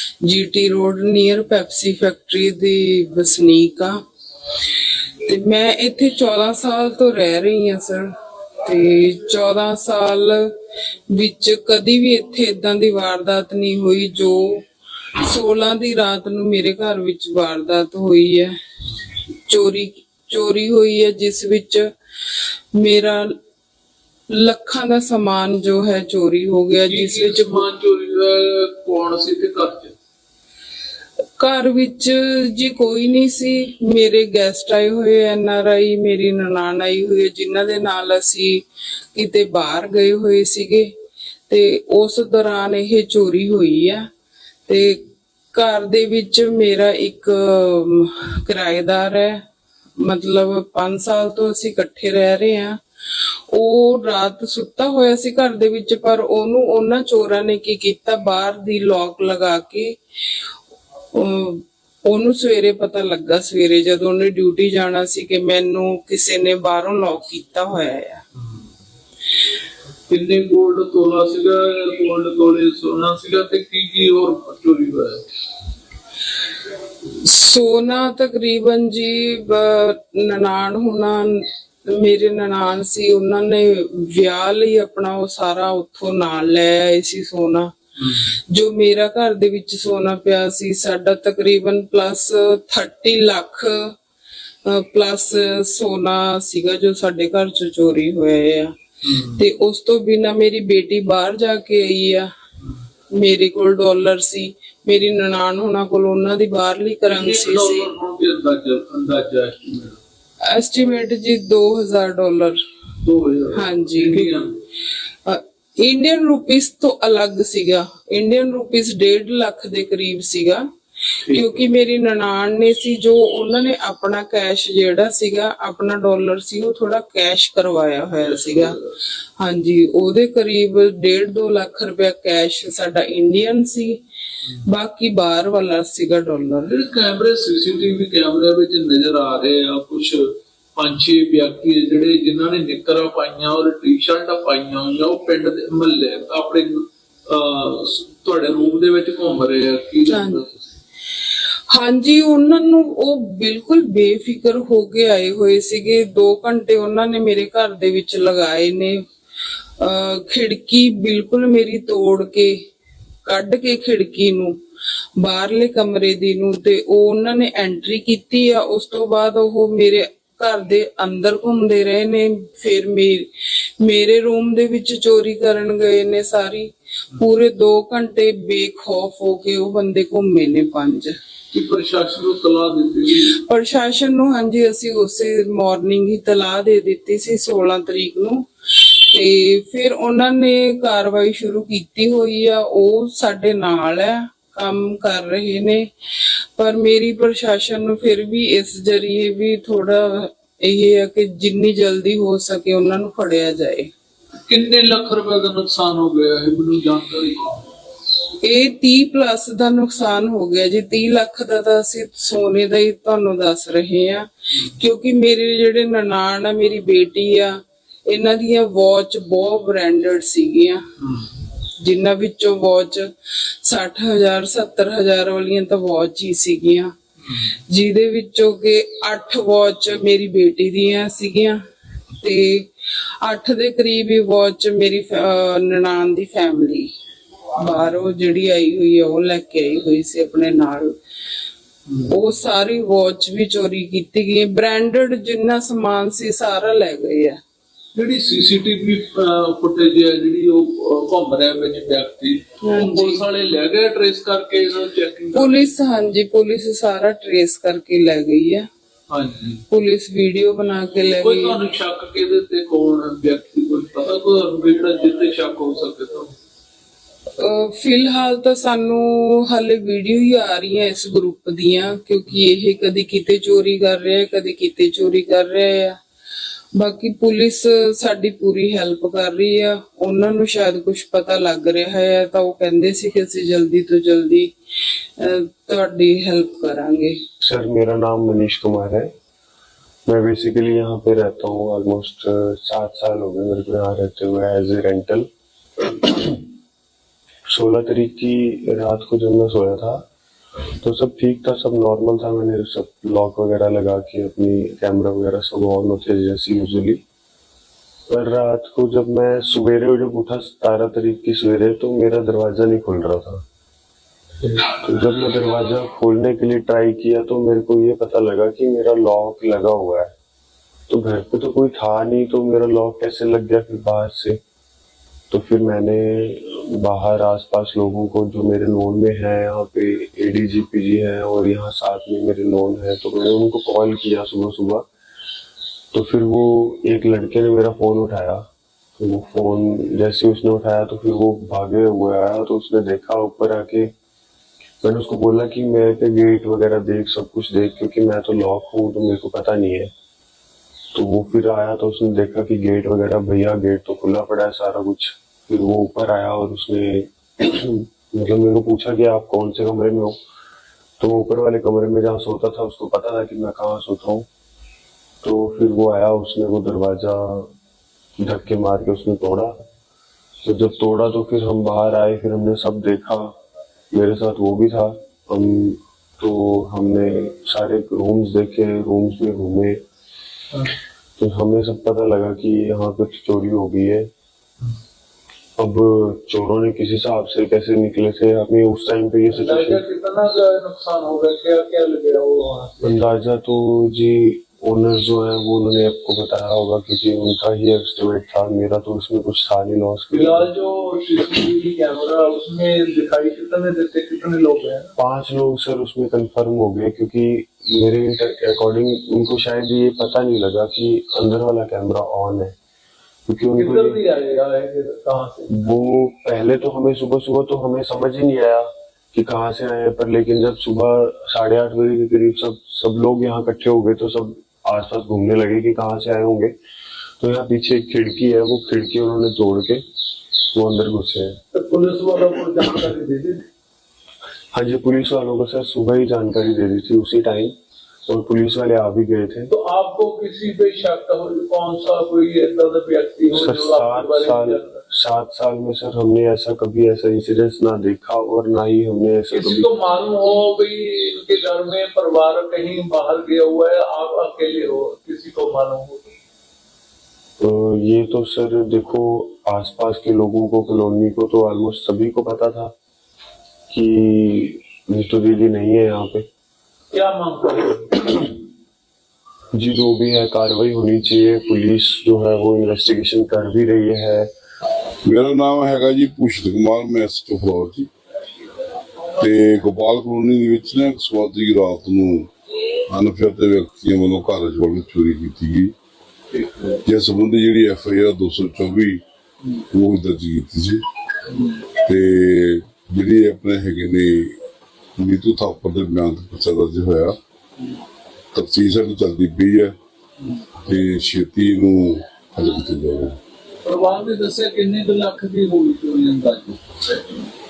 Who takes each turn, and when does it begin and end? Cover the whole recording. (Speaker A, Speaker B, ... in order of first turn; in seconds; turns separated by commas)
Speaker A: 0.2-4.0, Speaker A: 5.2-8.1, Speaker A: 8.6-10.5, Speaker A: 11.1-14.6, Speaker A: 15.2-18.5, Speaker A: 19.5-21.9, Speaker A: 22.7-23.4, Speaker A: 24.3-27.6, Speaker B: 26.9-29.9, Speaker A: 31.4-38.6, Speaker A: 39.1-40.9, Speaker A: 41.5-44.1, Speaker A: 44.7-49.4, Speaker A: 50.0-52.8, Speaker A: 53.5-60.0, Speaker A: 61.1-68.2, Speaker B: 70.1-75.2, Speaker A: 77.2-87.7, Speaker B: 88.0-88.3, Speaker A: 88.3-93.9, Speaker A: 94.6-98.8, Speaker B: 99.0-99.5, Speaker A: 99.3-102.3, Speaker A: 103.1-107.9, Speaker B: 107.1-110.0, Speaker A: 110.4-112.6, Speaker B: 113.0-114.5, Speaker A: 113.5-114.4, Speaker A: 115.2-120.7, Speaker B: 121.3-121.6, Speaker A: 121.3-128.8, Speaker B: 128.2-128.8, Speaker A: 129.4-134.0, Speaker A: 134.6-136.7, Speaker B: 136.7-150.7, Speaker A: 150.1-150.4, Speaker A: 151.7-159.0, Speaker A: 159.8-162.6, Speaker A: 163.2-164.6, Speaker A: 165.2-181.2, Speaker B: 181.5-183.3, Speaker A: 183.3-195.9, Speaker A: 196.6-203.9, Speaker B: 204.3-207.6, Speaker A: 208.4-220.8, Speaker B: 221.0-221.3, Speaker A: 221.8-223.1, Speaker A: 223.6-226.9, Speaker A: 227.7-231.6, Speaker A: 232.2-236.9, Speaker A: 237.6-241.0, Speaker A: 242.1-247.4, Speaker B: 247.9-255.7, Speaker A: 252.6-253.2, Speaker A: 255.3-258.7, Speaker B: 259.1-259.6, Speaker A: 259.7-261.6, Speaker B: 261.2-266.3, Speaker A: 267.4-276.0, Speaker A: 276.8-284.5, Speaker A: 285.2-287.2, Speaker C: 287.4-289.1, Speaker C: 290.1-295.3, Speaker C: 295.9-296.4, Speaker C: 297.5-300.1, Speaker C: 300.8-307.0, Speaker C: 308.1-313.4, Speaker C: 314.6-320.1, Speaker C: 320.9-324.4, Speaker C: 325.3-334.9, Speaker C: 335.9-343.9, Speaker C: 344.8-349.9, Speaker C: 350.9-360.2, Speaker C: 361.0-364.3, Speaker C: 365.2-367.5, Speaker C: 368.2-369.6, Speaker C: 370.4-373.4, Speaker C: 373.9-379.8, Speaker C: 381.2-384.1, Speaker C: 385.6-389.8, Speaker B: 389.3-393.0, Speaker C: 392.8-400.5, Speaker B: 400.1-404.9, Speaker C: 405.0-412.6, Speaker C: 413.3-414.0, Speaker B: 413.6-415.5, Speaker C: 415.5-426.5, Speaker C: 427.2-429.8, Speaker C: 430.5-431.4, Speaker B: 431.5-433.4, Speaker C: 434.5-437.5, Speaker C: 438.1-439.5, Speaker B: 439.5-444.8, Speaker C: 443.3-449.7, Speaker B: 449.3-456.0, Speaker C: 457.4-462.7, Speaker C: 463.7-466.3, Speaker B: 466.9-468.3, Speaker C: 469.5-474.3, Speaker D: 475.0-477.9, Speaker D: 479.2-482.3, Speaker D: 482.9-485.7, Speaker B: 486.3-486.8, Speaker D: 486.8-489.0, Speaker D: 489.7-490.8, Speaker B: 491.3-491.6, Speaker D: 491.8-494.4, Speaker D: 495.0-497.2, Speaker D: 498.3-499.8, Speaker B: 500.2-500.4, Speaker D: 500.6-503.2, Speaker B: 503.6-507.3